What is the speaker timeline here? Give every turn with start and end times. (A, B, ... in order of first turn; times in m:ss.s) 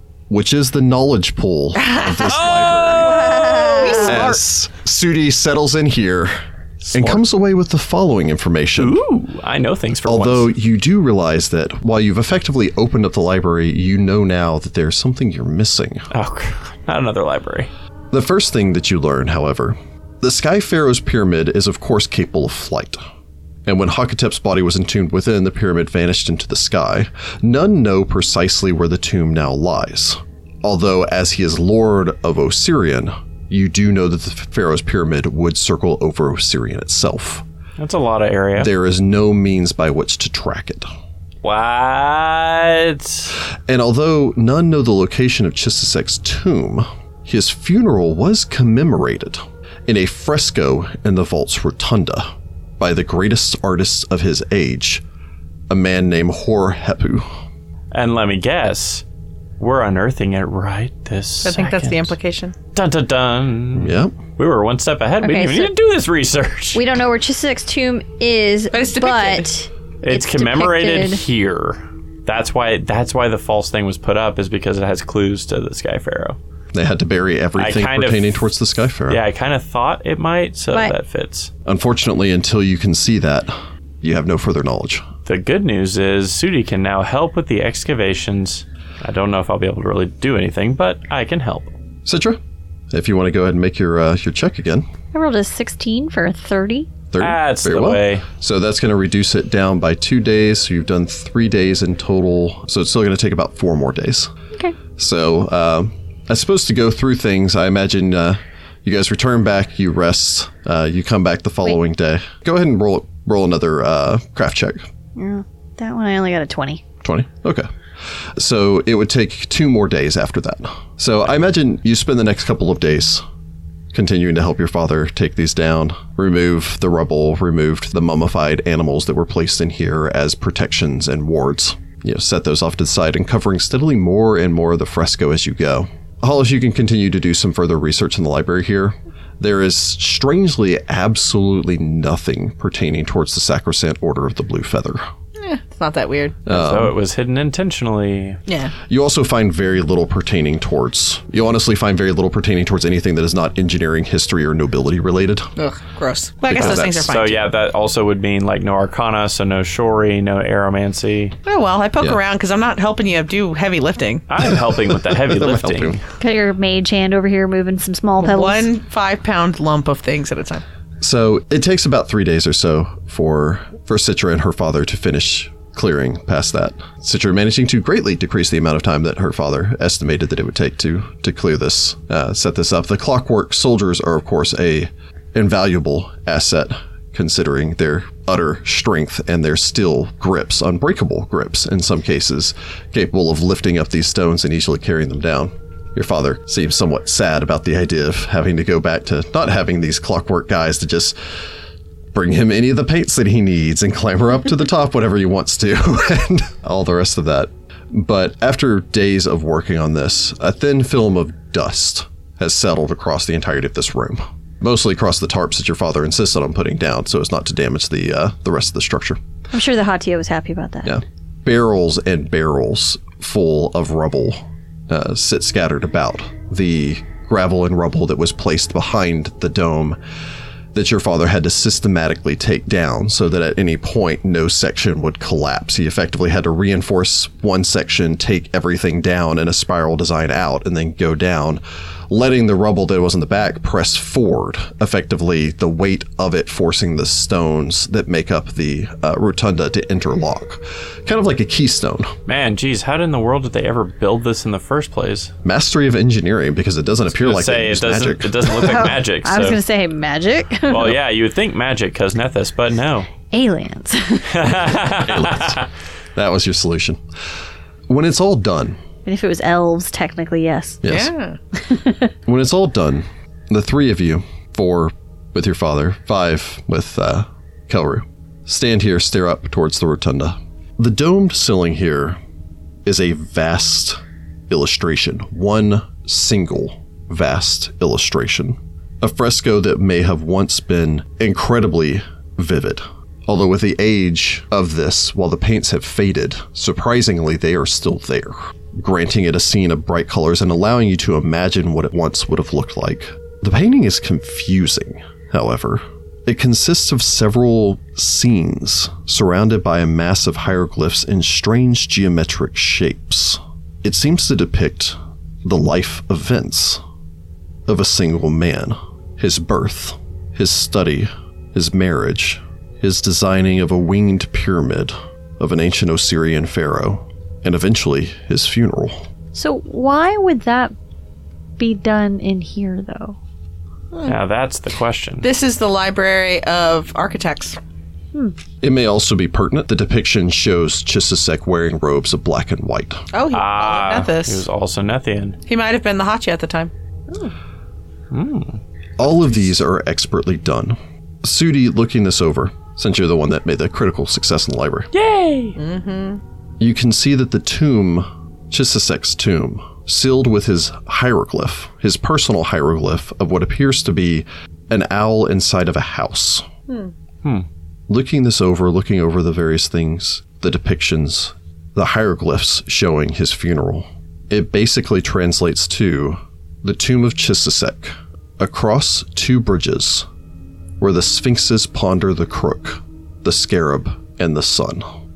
0:00.3-0:03.5 A
0:01.8-0:02.3 B
0:02.2-0:04.2 C
0:02.9-0:04.4 B
0:04.0-0:06.3 A
0:06.8-0:07.2 C
0:06.9-0:09.0 A
0:08.8-0:10.5 C
0:10.0-0:16.1 A
0:16.1-0:17.7 C
0:18.1-0:23.0 A
0:23.6-0:37.4 A
0:37.8-0:38.7 C
0:38.6-0:40.9 A
0:41.4-0:43.3 C
0:43.7-0:52.3 A
0:52.8-0:55.0 A
0:55.7-0:57.2 A
0:57.9-0:59.0 C
0:59.6-1:02.1 C
1:01.4-1:02.5 B
1:02.7-1:06.8 C
1:03.7-1:04.1 A
1:05.2-1:05.7 D
1:06.7-1:11.2 D
1:08.7-1:09.5 B
1:10.0-1:16.4 C
1:16.7-1:19.2 A
1:17.6-1:18.5 C
1:19.1-1:21.5 C
1:21.6-1:25.0 A
1:25.2-1:31.7 C
1:32.0-1:32.4 A
1:32.9-1:34.8 A
1:35.1-1:36.9 D
1:37.1-1:44.3 A
1:37.2-1:38.2 C
1:45.0-1:54.8 A
1:55.2-1:56.8 D
1:57.0-1:57.7 A
1:58.4-2:03.2 A
2:03.9-2:25.0 A
2:25.4-2:26.4 B
2:26.4-2:26.9 A
2:26.5-2:28.4 C
2:28.5-2:28.7 B
2:28.9-2:35.5 A
2:35.6-2:37.4 B
2:36.5-2:37.1 A
2:36.5-2:41.3 C
2:41.4-2:44.2 B
2:44.3-2:46.0 C
2:44.4-2:46.0 A
2:46.2-2:48.7 D
2:48.2-2:50.6 B
2:51.0-3:21.2 A
3:22.1-3:39.2 A
3:39.5-3:41.0 D
3:40.8-3:50.0 A
3:50.7-4:12.1 A
4:12.3-4:15.3 C
4:15.4-4:19.0 A
4:17.1-4:19.6 C
4:18.6-4:20.9 D
4:20.7-4:23.1 C
4:23.3-4:24.4 D
4:24.3-4:25.6 C
4:25.0-4:25.6 A
4:26.1-4:27.0 A
4:27.9-4:28.8 A
4:29.0-4:30.8 D
4:30.8-4:31.1 A
4:30.9-4:31.4 B
4:31.6-4:32.1 D
4:32.2-4:42.2 A
4:42.8-5:16.8 A
5:17.7-5:29.0 A
5:29.3-5:30.7 D
5:31.6-5:33.2 D
5:34.0-5:35.3 C
5:35.2-5:37.6 B
5:38.6-5:43.0 A
5:43.1-5:44.4 B
5:43.3-5:45.4 C
5:45.5-5:46.7 B
5:48.1-5:48.6 C
5:49.0-5:54.9 A
5:54.9-5:55.6 C
5:55.6-5:56.2 B
5:56.6-6:06.4 A
6:06.7-6:06.9 B
6:07.9-6:20.1 A
6:20.8-6:24.8 A